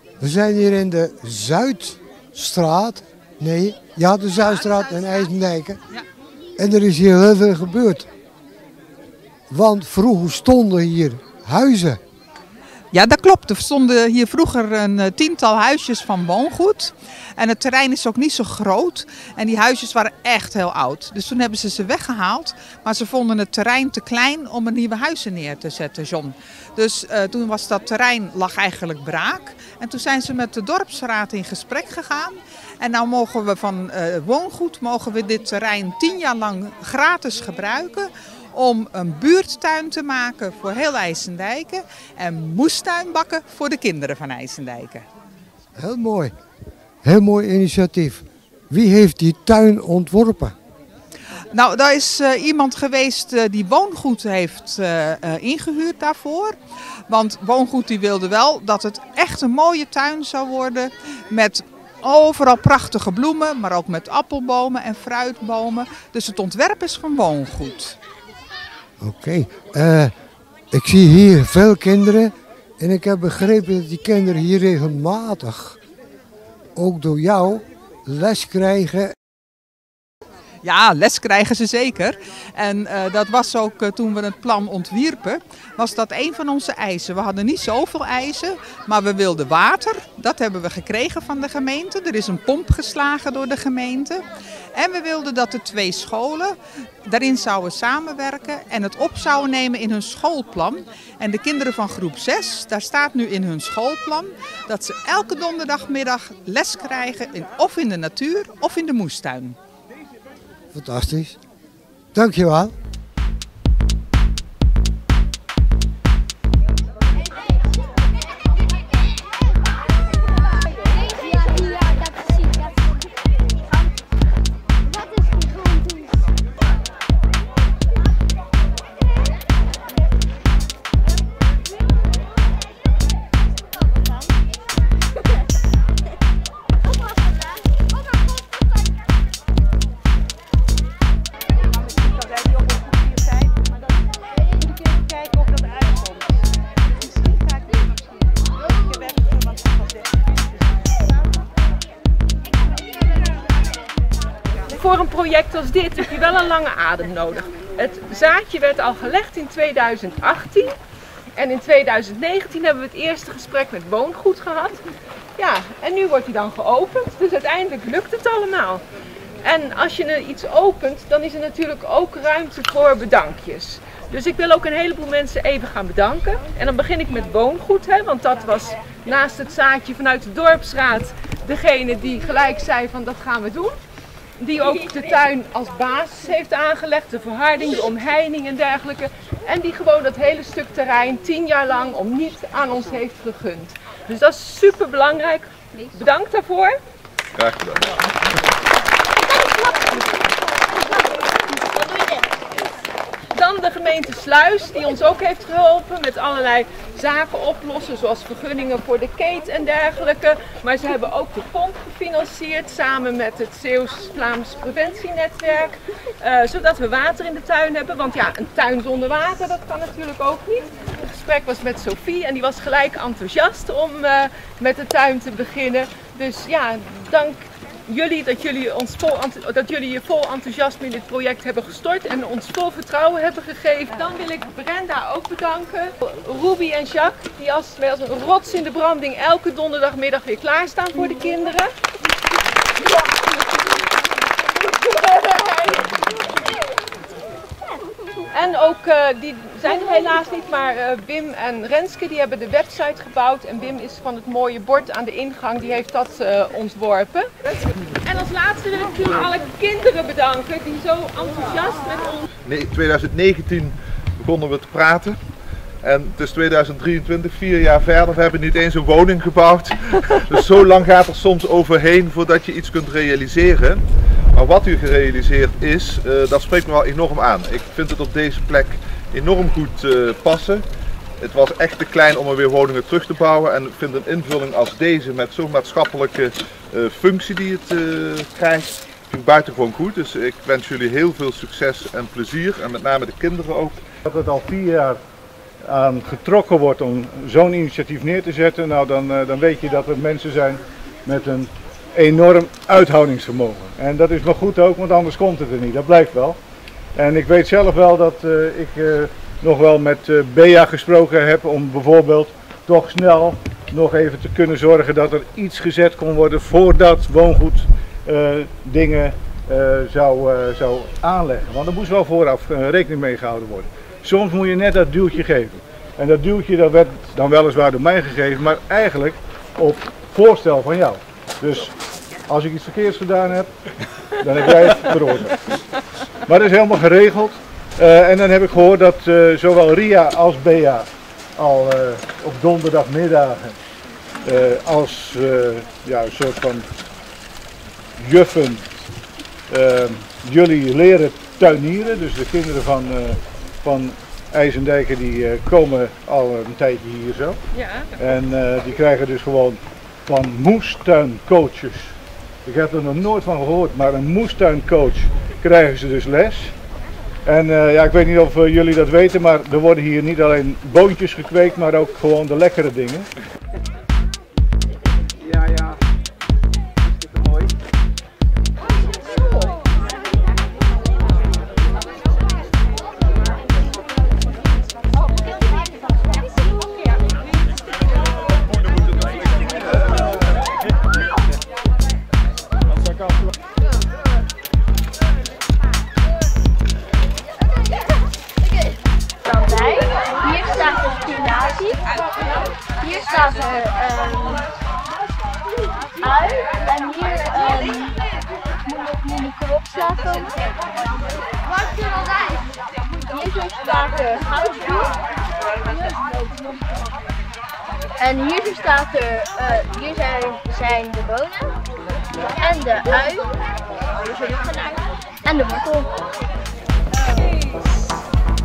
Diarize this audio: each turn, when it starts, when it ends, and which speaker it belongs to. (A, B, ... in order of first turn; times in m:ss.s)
0:00.2-0:05.8 A
0:04.4-0:05.3 B
0:06.6-0:08.1 A
0:09.5-0:12.0 A
0:12.9-0:45.0 B
0:45.8-0:46.3 A
0:47.0-0:50.5 A
0:51.5-0:56.5 B
0:57.1-1:08.0 B
1:09.0-1:10.1 A
1:10.7-1:15.8 A
1:16.8-1:19.1 A
1:20.6-1:49.6 B
1:50.7-1:51.4 A
1:52.1-1:52.7 A
2:01.1-2:02.5 C
2:34.7-2:40.7 D
2:41.4-2:44.8 D
2:45.4-2:48.8 D
2:49.4-3:03.7 D
3:04.4-3:16.7 D
3:17.3-3:18.1 E
3:21.7-3:22.2 C
3:23.3-4:01.7 D
4:02.8-4:03.2 D
4:04.5-4:06.0 D
4:08.3-4:17.3 D
4:18.0-4:22.3 D
4:22.4-4:25.2 E
4:25.8-4:33.8 E
4:34.3-4:40.6 E
4:41.2-4:53.8 E
4:54.1-4:55.0 F
4:55.7-5:06.4 F
5:07.0-5:31.7 F
5:32.3-5:33.5 F
5:34.2-5:35.4 F
5:36.3-5:43.6 F
5:44.2-5:46.6 F
5:48.0-5:48.6 F
5:49.5-5:57.4 F
5:57.5-5:57.9 D
5:58.0-6:06.5 F
6:07.2-6:13.1 F
6:39.2-6:41.8 C
6:42.8-6:44.5 C
6:46.0-6:48.0 C
6:48.6-6:52.0 C
6:53.0-6:55.0 C
6:55.6-6:56.9 C
6:58.0-7:01.5 C
7:02.4-7:03.4 C
7:04.0-7:05.9 C
7:06.9-7:08.0 D